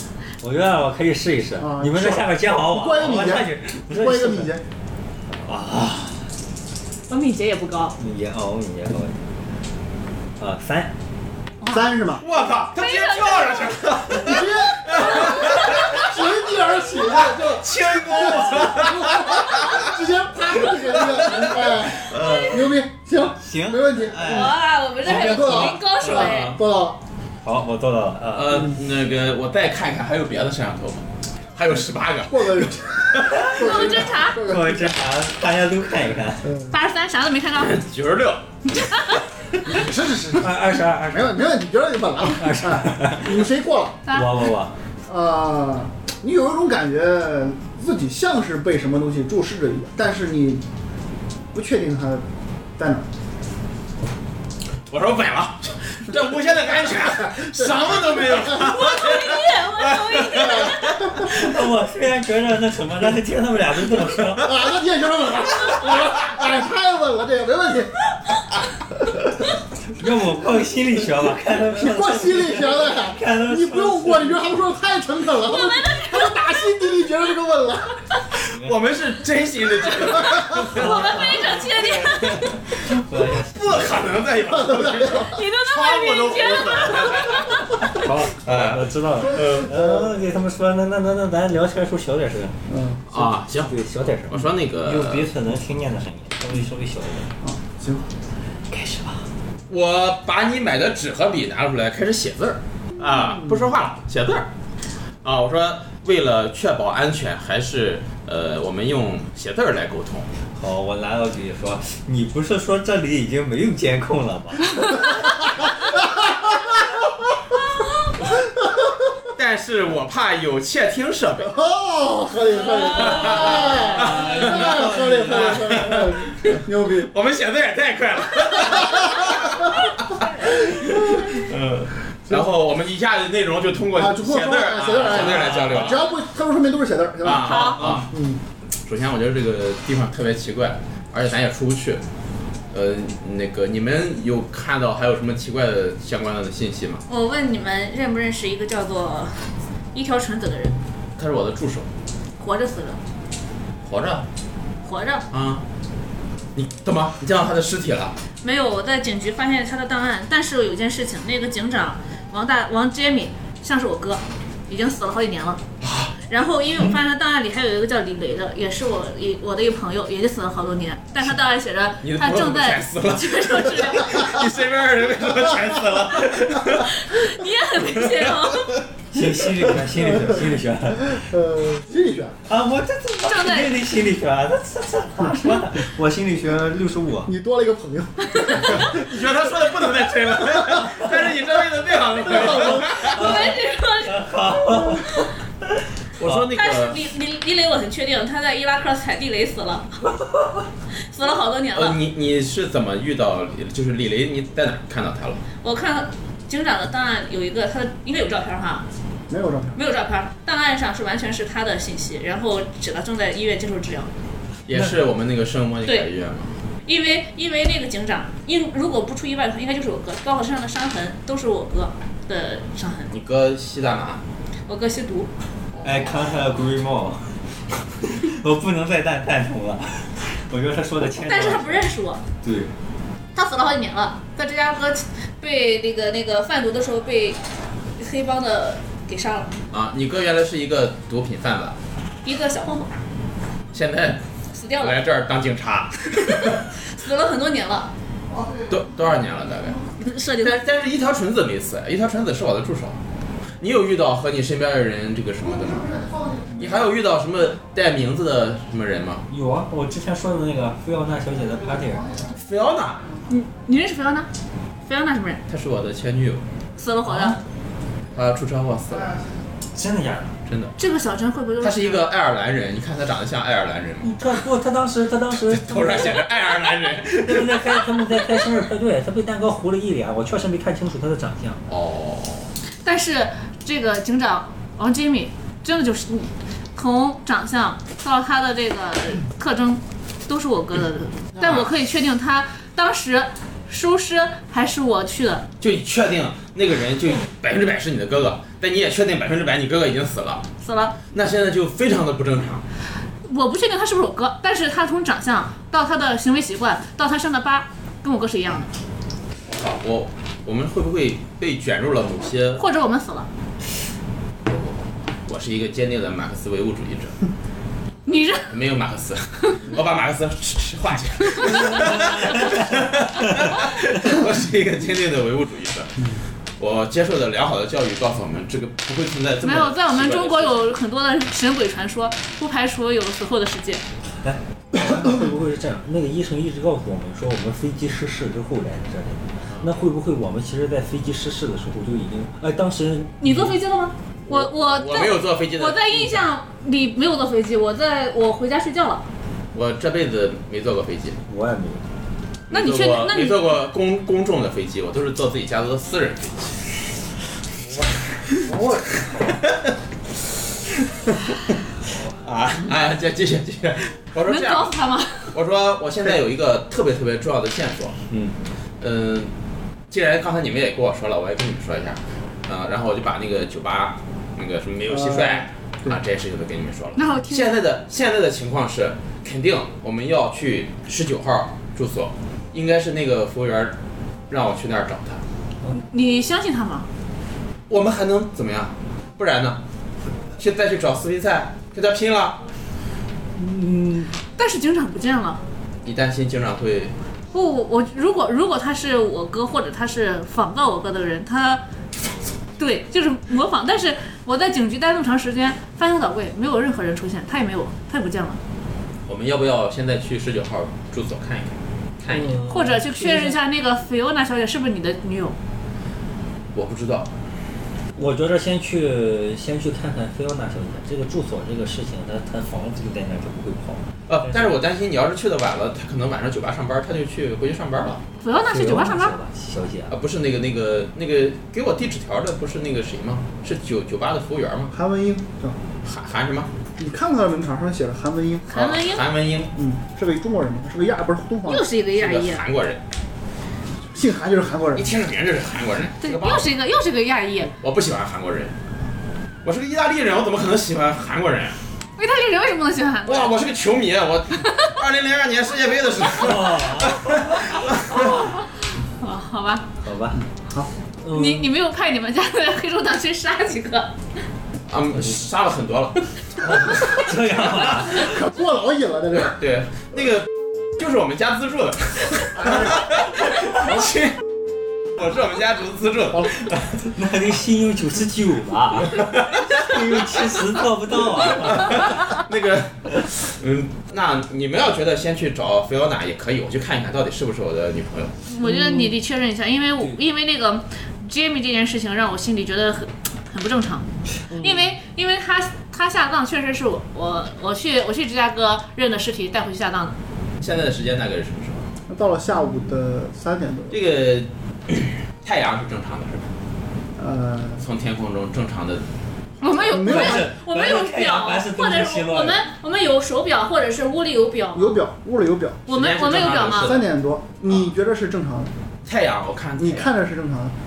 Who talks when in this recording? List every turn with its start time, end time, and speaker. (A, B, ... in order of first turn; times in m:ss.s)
0:00.4-0:04.5 A
0:01.6-0:04.6 B
0:05.4-0:06.3 A
0:07.1-0:08.0 C
0:08.0-0:09.2 A
0:10.4-0:10.9 A
0:11.7-0:12.2 B
0:12.2-0:16.2 D
0:12.8-0:13.8 C
0:14.1-0:27.0 B
0:15.0-0:15.8 C
0:16.9-0:19.9 D
0:20.8-0:22.6 D
0:22.1-0:22.8 C
0:23.2-0:26.2 A
0:24.2-0:26.6 C
0:26.1-0:26.6 D
0:27.4-0:28.7 A
0:28.3-0:31.0 D
0:31.6-0:33.4 D
0:32.3-0:34.9 B
0:33.2-0:36.5 A
0:33.6-0:34.4 C
0:36.4-0:36.7 B
0:36.7-0:37.8 C
0:37.6-0:38.4 D
0:38.7-0:39.2 C
0:39.7-0:40.6 B
0:40.4-0:41.4 A
0:41.1-0:44.2 B
0:42.3-0:43.5 A
0:44.1-0:44.7 A
0:45.1-0:50.6 B
0:51.5-0:52.2 B
0:52.8-0:53.1 B
0:54.9-1:01.5 D
0:57.2-0:58.8 B
0:58.4-1:01.1 C
1:00.6-1:01.3 B
1:01.2-1:04.5 A
1:04.4-1:08.0 B
1:10.0-1:14.4 A
1:11.7-1:18.0 B
1:15.4-1:16.5 C
1:18.5-1:21.1 D
1:20.2-1:20.6 B
1:20.2-1:22.6 C
1:20.6-1:24.0 A
1:22.1-1:29.7 D
1:24.6-1:25.4 B
1:25.1-1:27.8 C
1:27.9-1:32.6 A
1:29.4-1:30.1 B
1:32.7-1:33.0 B
1:33.1-1:33.8 D
1:33.1-1:37.3 A
1:34.3-1:35.2 D
1:37.4-1:38.1 B
1:38.7-1:39.2 A
1:39.7-1:44.5 D
1:45.2-1:50.3 D
1:50.6-1:55.3 A
1:56.0-1:56.6 B
1:59.4-2:01.6 D
2:01.5-2:07.1 B
2:02.9-2:16.1 D
2:03.0-2:05.9 A
2:08.6-2:09.7 B
2:14.0-2:18.4 B
2:15.1-2:15.9 A
2:17.2-2:18.1 D
2:17.3-2:17.8 C
2:17.8-2:18.1 A
2:18.8-2:22.0 D
2:22.7-2:27.0 D
2:27.1-2:30.8 C
2:31.2-2:31.9 D
2:32.4-2:33.0 C
2:33.8-2:34.2 D
2:34.8-2:35.3 C
2:35.3-2:35.6 D
2:36.6-2:38.1 D
2:38.4-2:45.6 C
2:45.8-2:46.2 D
2:46.2-2:54.4 C
2:52.0-2:57.0 D
2:56.8-2:58.8 C
2:58.0-2:58.5 D
2:59.1-3:01.2 A
3:01.0-3:02.4 B
3:02.5-3:07.3 A
3:03.2-3:03.8 C
3:07.3-3:09.0 B
3:08.4-3:08.8 C
3:08.6-3:13.4 D
3:12.2-3:13.0 B
3:12.8-3:15.3 C
3:13.0-3:15.3 A
3:16.2-3:17.0 D
3:16.3-3:20.1 C
3:20.2-3:20.6 A
3:21.1-3:22.0 C
3:21.7-3:25.4 D
3:25.6-3:28.8 C
3:29.3-3:29.8 B
3:29.8-3:34.1 C
3:34.7-3:36.5 D
3:36.9-3:43.1 C
3:43.1-3:44.2 D
3:44.7-3:45.3 C
3:45.8-3:47.4 A
3:48.0-3:51.8 A
3:51.2-3:52.2 C
3:52.4-3:52.7 A
3:53.4-3:57.4 C
3:58.0-3:59.6 C
3:59.7-4:01.8 D
4:02.2-4:02.9 C
4:03.7-4:04.2 D
4:04.6-4:05.0 C
4:04.8-4:06.6 D
4:06.2-4:07.9 C
4:08.3-4:08.6 B
4:08.7-4:09.8 D
4:10.0-4:10.6 C
4:10.4-4:13.0 D
4:13.6-4:16.0 D
4:15.8-4:16.7 B
4:16.5-4:19.2 D
4:19.3-4:22.1 A
4:22.0-4:22.3 B
4:22.3-4:23.1 D
4:23.3-4:24.3 C
4:24.9-4:25.4 C
4:25.5-4:26.4 D
4:26.8-4:27.4 C
4:27.0-4:27.4 A
4:28.1-4:29.2 D
4:29.0-4:29.3 B
4:29.7-4:30.4 A
4:30.5-4:30.7 D
4:30.8-4:32.1 C
4:31.6-4:34.2 D
4:34.0-4:36.2 A
4:35.4-4:37.8 D
4:37.2-4:41.7 A
4:41.7-4:42.5 D
4:42.8-4:55.5 C
4:51.4-4:51.7 D
4:55.6-5:00.5 D
5:00.6-5:01.0 C
5:01.1-5:02.6 D
5:03.3-5:08.7 C
5:09.5-5:12.6 D
5:12.6-5:13.3 C
5:15.3-5:17.2 D
5:18.0-5:18.6 C
5:18.5-5:26.0 D
5:21.4-5:21.8 C
5:26.6-5:30.8 D
5:29.4-5:33.8 C
5:34.2-5:43.6 A
5:43.2-5:49.0 C
5:44.3-5:46.3 D
5:49.5-5:51.2 D
5:51.3-5:51.8 A
5:52.5-5:56.6 D
5:52.5-5:53.5 C
5:58.4-5:58.9 B
6:02.2-6:04.8 D
6:04.3-6:05.4 C
6:05.3-6:08.0 D
6:08.1-6:08.4 A
6:08.8-6:09.3 D
6:09.9-6:23.7 D
6:14.9-6:16.0 B
6:17.0-6:17.6 C
6:24.3-6:25.2 D
6:25.7-6:26.9 C
6:27.7-6:29.6 D
6:30.4-6:32.4 D
6:33.4-6:34.1 A
6:34.3-6:35.4 C
6:35.9-6:36.9 D
6:37.3-6:41.6 C
6:42.6-6:48.4 C
6:49.1-6:52.3 D
6:52.1-6:53.4 A
6:52.5-6:55.4 C
6:56.5-6:57.1 D
6:58.0-7:04.6 A
7:04.1-7:08.0 D
7:08.2-7:09.2 C
7:08.5-7:09.9 A
7:09.9-7:14.7 D
7:14.7-7:15.6 B
7:15.8-7:16.5 D
7:16.8-7:18.5 B
7:18.5-7:19.0 C
7:18.5-7:19.5 D
7:19.6-7:21.7 B
7:21.5-7:22.4 C
7:21.9-7:22.8 D
7:23.9-7:24.9 B
7:24.8-7:26.5 D
7:26.0-7:27.6 C
7:27.6-7:28.5 D
7:29.4-7:31.6 D
7:32.0-7:33.3 C
7:33.1-7:38.2 D
7:34.4-7:34.7 C
7:36.2-7:37.5 A
7:37.9-7:39.7 C
7:39.8-7:40.2 A
7:40.2-7:40.7 B
7:41.0-7:41.5 A
7:41.1-7:43.9 C
7:44.7-7:47.0 D
7:46.4-7:48.2 A
7:47.8-7:49.4 B
7:49.3-7:54.2 D
7:52.4-7:52.7 B
7:55.0-7:56.5 D
7:56.8-8:01.9 A
8:01.2-8:08.2 D
8:08.3-8:20.0 C
8:08.4-8:08.9 A
8:20.4-8:21.7 D
8:21.9-8:23.8 B
8:23.7-8:26.3 D
8:27.0-8:27.6 B
8:27.6-8:28.9 D
8:29.4-8:34.8 C
8:29.6-8:30.3 B
8:29.7-8:32.4 A
8:34.5-8:35.7 B
8:35.7-8:36.8 C
8:35.7-8:36.9 D
8:36.6-8:38.5 B
8:38.8-8:39.9 D
8:39.6-8:40.5 B